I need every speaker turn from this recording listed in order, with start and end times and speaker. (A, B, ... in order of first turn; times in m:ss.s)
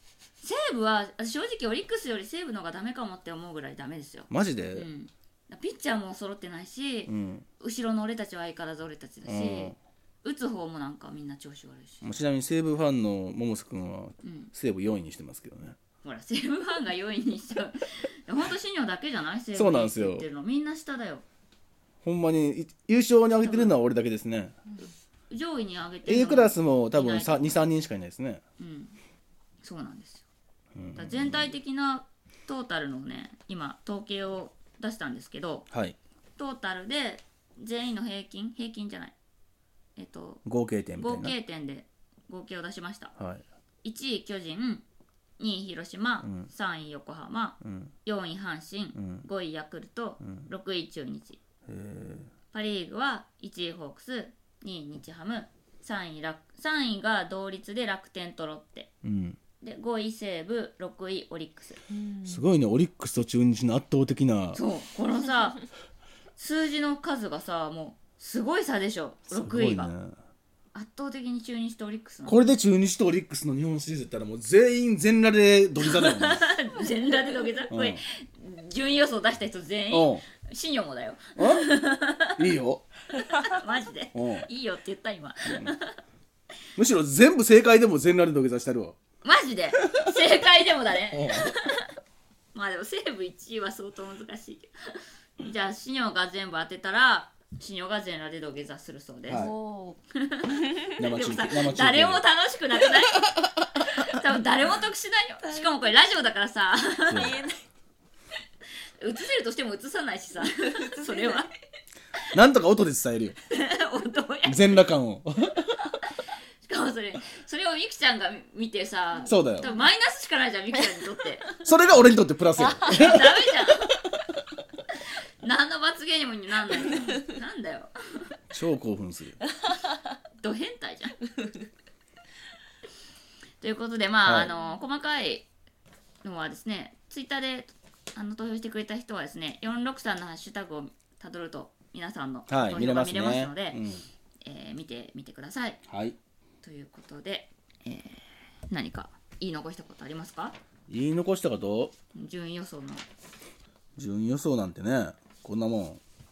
0:00.4-0:12.0 A
0:04.3-0:04.9 B
0:07.1-0:07.4 B
0:09.2-0:09.8 B
0:12.0-0:15.8 B
0:14.2-0:14.5 A
0:16.0-0:21.2 A
0:19.5-0:20.2 B
0:22.0-0:24.5 B
0:23.4-0:23.8 A
0:25.3-0:27.6 A
0:26.0-0:28.4 B
0:28.6-0:29.0 A
0:29.6-0:30.2 A
0:30.7-0:31.5 B
0:31.0-0:35.7 A
0:35.7-0:36.0 B
0:36.4-0:39.1 A
0:40.0-0:40.4 A
0:40.4-0:41.3 B
0:41.0-0:43.1 A
0:43.2-0:43.4 B
0:43.8-0:44.8 A
0:45.4-0:51.4 A
0:46.2-0:46.5 B
0:47.6-0:47.9 B
0:49.0-0:49.2 B
0:51.7-0:52.3 B
0:52.5-0:58.9 A
0:59.0-0:59.4 B
0:59.6-1:01.8 A
1:01.9-1:02.4 C
1:02.2-1:04.6 B
1:04.5-1:05.6 A
1:06.4-1:09.9 A
1:09.3-1:10.1 B
1:10.7-1:12.5 A
1:12.3-1:16.4 B
1:15.8-1:22.4 A
1:17.7-1:18.0 B
1:19.9-1:20.2 B
1:21.4-1:21.7 B
1:22.4-1:22.8 B
1:23.4-1:26.0 A
1:24.1-1:24.5 B
1:26.8-1:29.0 B
1:29.2-1:31.9 A
1:29.9-1:30.1 B
1:31.1-1:31.5 B
1:32.5-1:34.7 A
1:35.4-1:39.5 A
1:39.3-1:39.5 B
1:39.3-1:40.0 C
1:40.2-1:47.3 A
1:41.0-1:42.2 B
1:45.4-1:45.7 C
1:47.1-1:47.6 C
1:47.1-1:47.4 B
1:49.0-1:51.5 A
1:50.6-1:51.4 C
1:52.3-1:53.4 B
1:53.5-1:54.8 A
1:54.4-1:55.8 B
1:56.6-2:01.5 A
1:59.3-1:59.7 B
1:59.5-1:59.8 C
2:01.6-2:03.2 B
2:02.6-2:03.2 C
2:02.9-2:04.0 A
2:05.4-2:07.9 A
2:08.5-2:09.4 B
2:10.4-2:11.2 A
2:13.6-2:15.5 A
2:14.2-2:14.5 B
2:16.2-2:23.8 A
2:22.5-2:24.0 B
2:24.4-2:25.8 A
2:25.9-2:26.2 B
2:26.6-2:30.6 A
2:30.9-2:31.9 B
2:32.1-2:33.0 A
2:34.0-2:36.0 B